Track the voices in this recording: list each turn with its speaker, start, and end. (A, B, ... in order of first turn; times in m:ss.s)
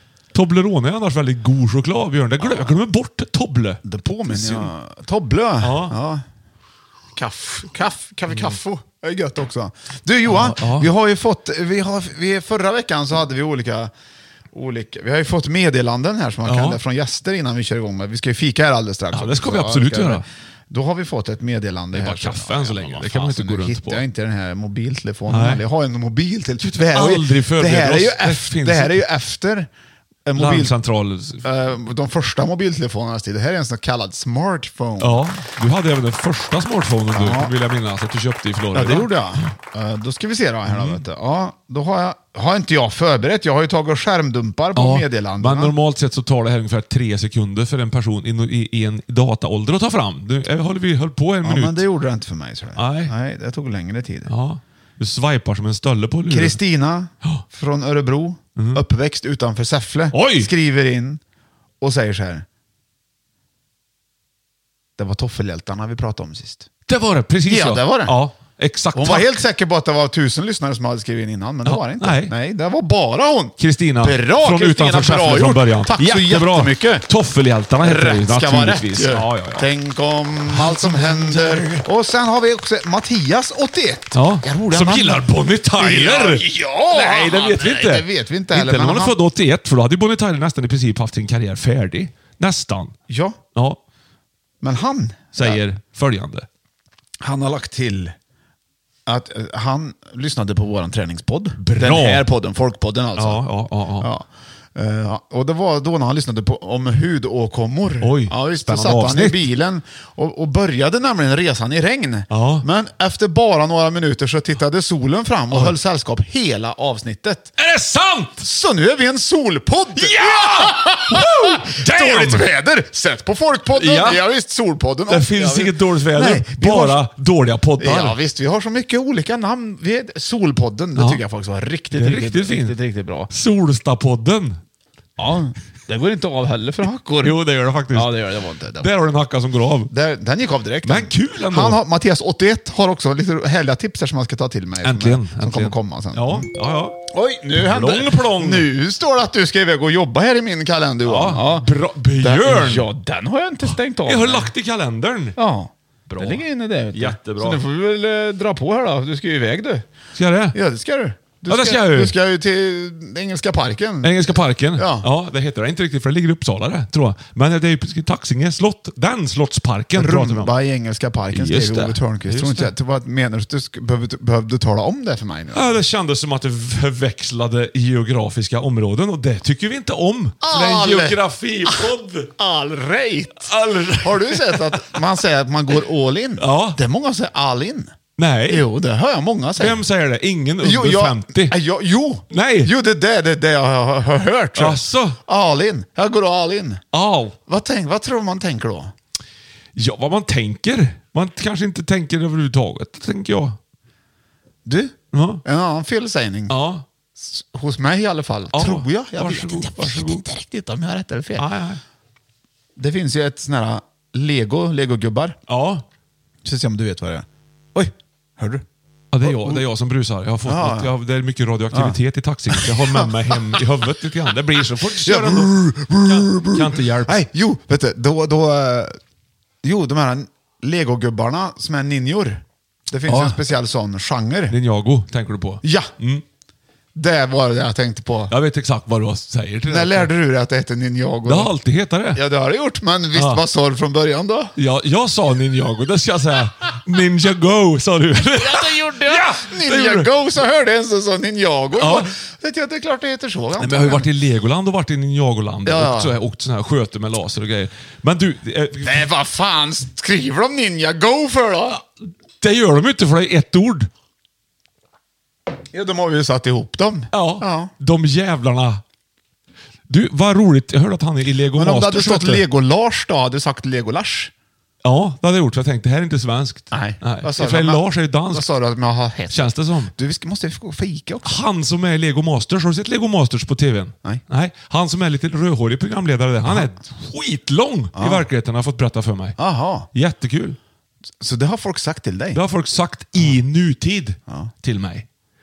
0:00.3-0:04.7 A
0:02.4-0:02.8 B
0:03.8-0:06.2 B
0:05.6-0:06.0 A
0:07.1-0:13.9 B
0:08.3-0:08.6 A
0:10.2-0:10.9 A
0:14.5-0:29.7 B
0:16.5-0:16.8 A
0:19.1-0:20.2 A
0:21.9-0:24.0 A
0:25.3-0:25.6 A
0:26.6-0:29.0 A
0:30.2-0:30.7 B
0:30.4-0:31.4 A
0:31.4-0:35.2 B
0:35.0-0:39.1 A
0:37.1-0:37.5 B
0:38.7-0:45.7 B
0:40.7-0:41.0 A
0:44.8-0:51.9 A
0:51.4-0:54.3 B
0:52.8-0:53.1 A
0:54.3-0:56.6 A
0:56.3-1:01.2 B
0:58.6-0:58.8 A
1:00.1-1:00.5 A
1:01.8-1:02.5 B
1:05.0-1:06.7 B
1:06.9-1:09.4 A
1:07.5-1:08.2 B
1:08.9-1:17.1 B
1:11.6-1:12.4 A
1:13.6-1:19.7 A
1:17.8-1:29.2 B
1:20.5-1:21.8 A
1:24.1-1:33.0 A
1:33.1-1:33.4 B
1:33.6-1:33.8 A
1:34.6-1:35.6 B
1:35.4-1:36.5 A
1:37.2-1:38.2 B
1:39.1-1:43.4 B
1:41.6-1:42.3 A
1:43.2-1:44.1 A
1:44.0-1:57.5 B
1:48.0-1:49.5 A
1:52.3-1:52.6 A
1:57.6-1:58.4 A
1:58.4-2:07.0 B
2:00.0-2:02.5 A
2:03.7-2:04.2 A
2:05.1-2:08.2 A
2:07.8-2:13.3 B
2:11.0-2:11.2 A
2:11.9-2:12.8 A
2:13.3-2:14.6 A
2:15.2-2:17.4 B
2:17.2-2:18.2 A
2:17.9-2:18.9 B
2:18.8-2:19.9 A
2:19.9-2:26.5 B
2:20.8-2:21.8 A
2:24.8-2:27.0 A
2:27.1-2:31.7 B
2:27.6-2:28.7 A
2:31.1-2:32.9 A
2:32.2-2:34.5 B
2:34.0-2:35.4 A
2:35.4-2:39.9 B
2:36.1-2:37.6 A
2:40.2-2:40.6 A
2:40.5-2:45.1 B
2:41.5-2:42.2 A
2:44.0-2:50.5 A
2:50.0-2:55.7 B
2:51.3-2:52.7 A
2:55.5-3:02.3 A
3:00.4-3:07.9 B
3:03.4-3:04.8 A
3:06.4-3:06.8 A
3:08.2-3:08.7 A
3:08.5-3:09.8 B
3:09.6-3:11.6 A
3:10.6-3:16.8 B
3:12.3-3:12.7 A
3:14.6-3:15.2 A
3:16.9-3:17.4 A
3:17.5-3:18.9 B
3:19.8-3:23.6 A
3:24.7-3:26.6 B
3:25.1-3:25.4 A
3:26.5-3:26.8 A
3:27.2-3:31.5 B
3:28.5-3:30.2 A
3:31.4-3:31.8 A
3:32.8-3:35.4 B
3:35.5-3:35.8 A
3:36.4-3:38.6 B
3:39.1-3:47.2 A
3:39.2-3:39.6 B
3:40.4-3:40.9 B
3:41.7-3:42.0 B
3:42.5-3:43.6 B
3:44.8-3:49.0 B
3:49.6-3:54.6 B
3:53.1-3:53.4 A
3:54.5-3:56.2 A
3:55.6-3:55.9 B
3:57.0-3:58.3 B
3:58.3-4:00.1 A
3:59.7-4:01.5 B
4:01.3-4:02.2 A
4:02.1-4:04.5 B
4:03.1-4:03.4 A
4:04.6-4:10.1 A
4:08.3-4:14.1 B
4:11.8-4:12.1 A
4:13.6-4:19.1 A
4:15.7-4:16.1 B
4:18.8-4:21.8 B
4:22.4-4:23.9 A
4:25.7-4:27.7 B
4:27.1-4:28.8 A
4:29.9-4:32.4 A
4:31.5-4:34.3 B
4:34.8-4:38.5 A
4:36.7-4:41.4 B
4:39.3-4:39.9 A
4:41.2-4:49.4 A
4:46.4-4:46.7 B
4:48.0-4:48.3 B
4:49.4-4:49.9 B
4:49.9-4:50.6 A
4:51.2-4:52.4 B
4:52.3-4:55.1 A